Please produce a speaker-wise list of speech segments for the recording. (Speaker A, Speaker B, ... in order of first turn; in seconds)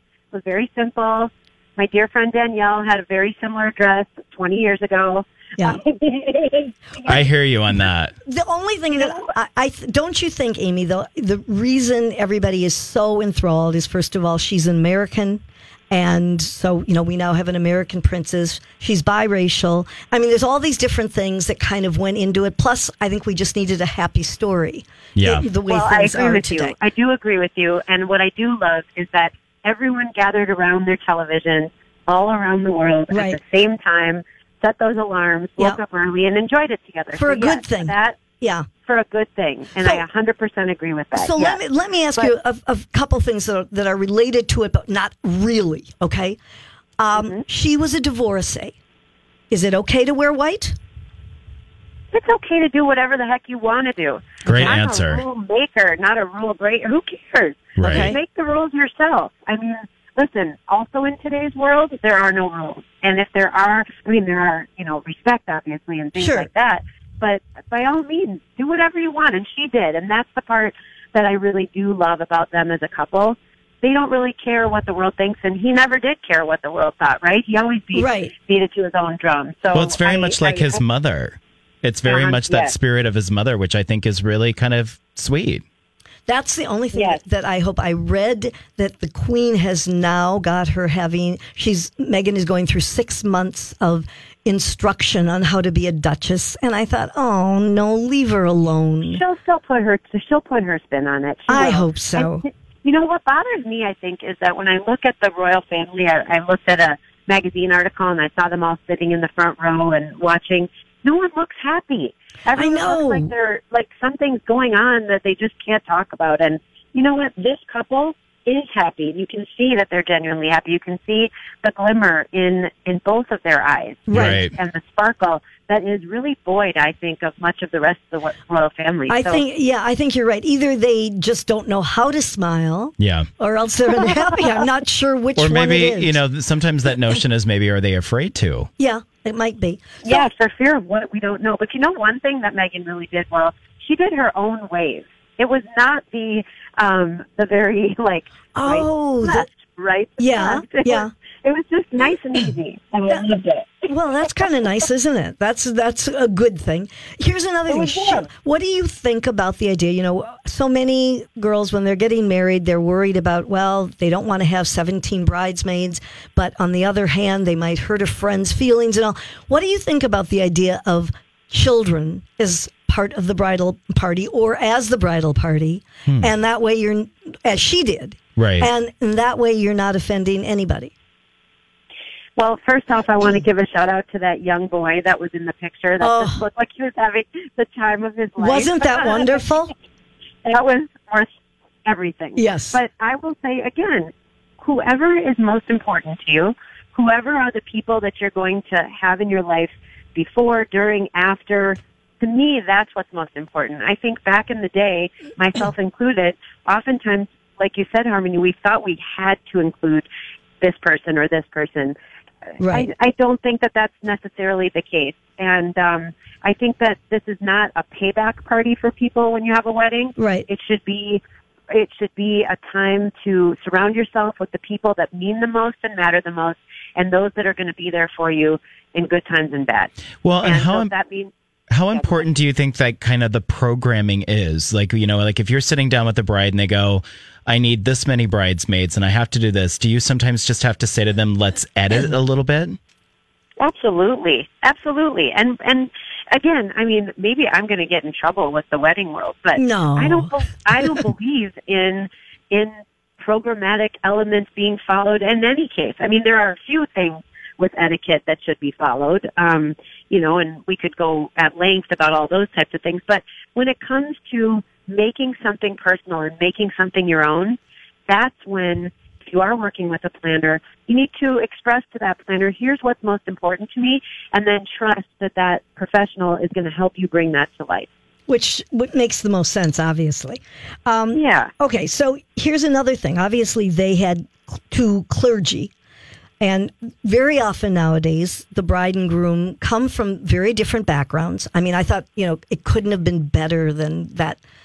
Speaker A: 0.3-7.2, 8.9-9.3, 25.7-38.2, 38.8-41.6, 47.1-47.4, 52.1-80.8, 82.0-82.7, 86.9-87.2, 99.1-129.4, 140.0-154.4, 157.7-158.3, 182.4-189.5, 190.4-191.3, 191.8-210.1, 210.6-211.9, 212.6-229.9, 230.4-231.3, 231.9-232.3, 243.6-277.9, 281.1-281.5
Speaker B: 7.0-8.1, 25.1-25.4, 54.5-55.2, 57.8-58.1, 79.7-85.6, 124.1-124.5, 133.0-133.3, 135.4-138.7, 178.4-178.7, 230.2-230.9, 231.7-242.8
Speaker C: 8.2-26.8, 33.1-33.4, 37.1-38.7, 41.1-46.4, 47.0-48.8, 49.5-50.8, 54.4-54.7, 57.8-58.2, 66.1-66.5, 77.9-78.3, 86.3-99.2, 101.5-102.4, 112.5-113.3, 124.1-124.4, 129.1-136.2, 138.8-140.2, 148.5-149.5, 150.2-151.1, 153.9-180.9, 186.0-186.4, 188.4-189.7, 192.4-192.8, 212.6-212.9, 220.2-220.4, 249.6-251.0, 278.3-285.7, 286.4-294.4